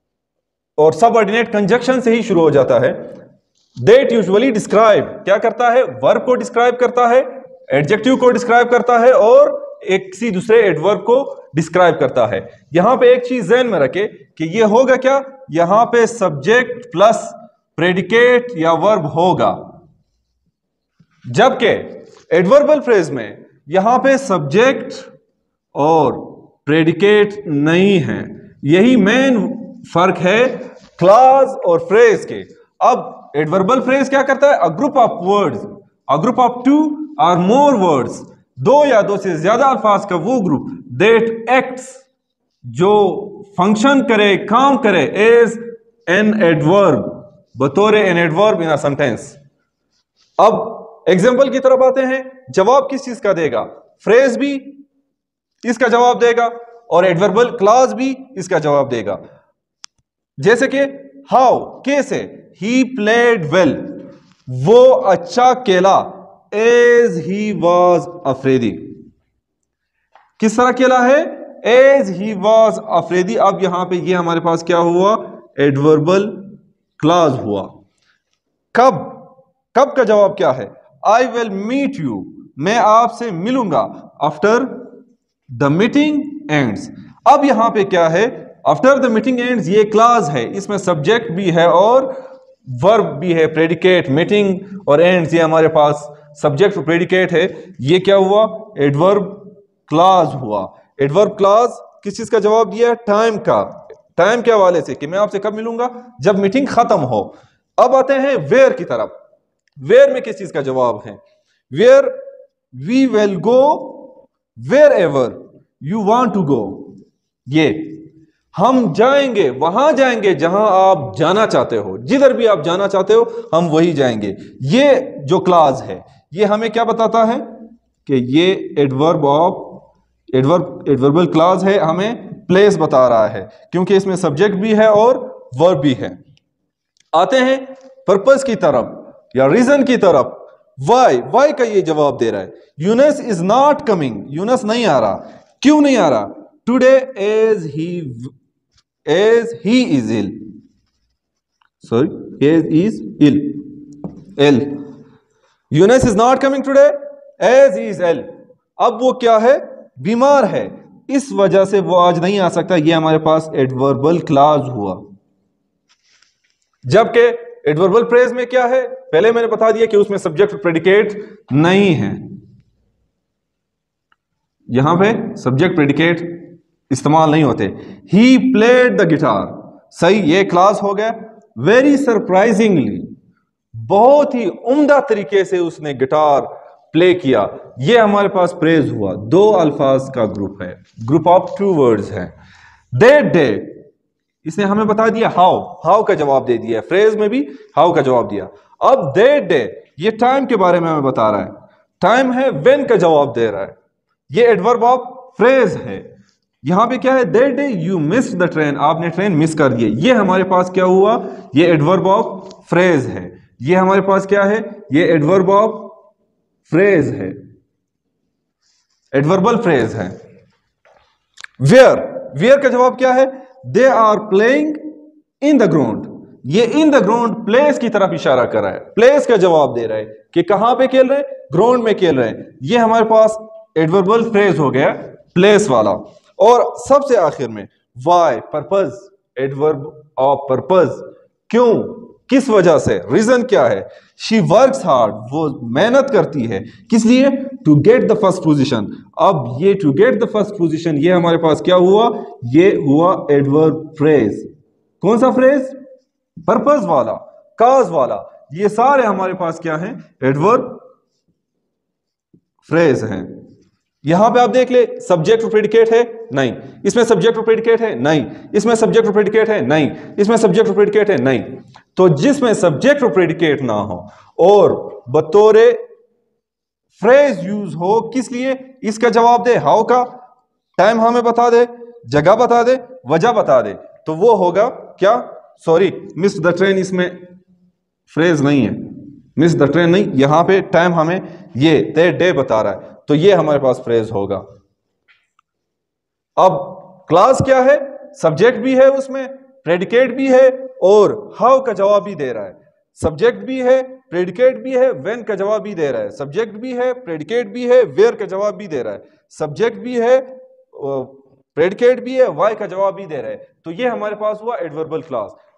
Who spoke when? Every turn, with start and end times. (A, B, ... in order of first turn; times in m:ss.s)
0:00.8-0:03.1 A
0:03.8-0:19.6 A
0:21.3-0:25.1 A
0:25.7-0:42.0 A
0:42.7-0:49.4 A
0:50.4-0:54.7 A
0:55.6-0:59.2 A
1:00.4-1:09.0 A
1:10.4-1:17.7 A
1:18.7-1:25.0 A
1:25.5-1:32.2 A
1:32.7-1:49.1 A
1:49.8-1:51.2 A
1:51.7-1:52.2 A
1:52.7-1:56.9 A
1:57.5-2:16.2 A
2:17.1-2:28.3 A
2:29.0-2:30.5 A
2:31.8-2:34.8 A
2:35.7-2:45.0 A
2:46.9-2:52.3 A
2:54.7-3:03.1 A
3:03.7-3:12.3 A
3:12.9-3:13.8 A
3:14.4-3:23.8 A
3:24.3-3:26.0 A
3:26.6-3:35.9 A
3:36.7-3:37.4 A
3:39.1-3:40.2 A
3:41.6-4:14.5 A
4:15.0-4:15.8 A
4:16.4-4:20.8 A
4:22.6-4:23.3 A
4:24.0-4:35.8 A
4:37.0-4:40.2 A
4:40.8-4:47.2 A
4:48.1-4:54.4 A
4:56.4-5:15.4 A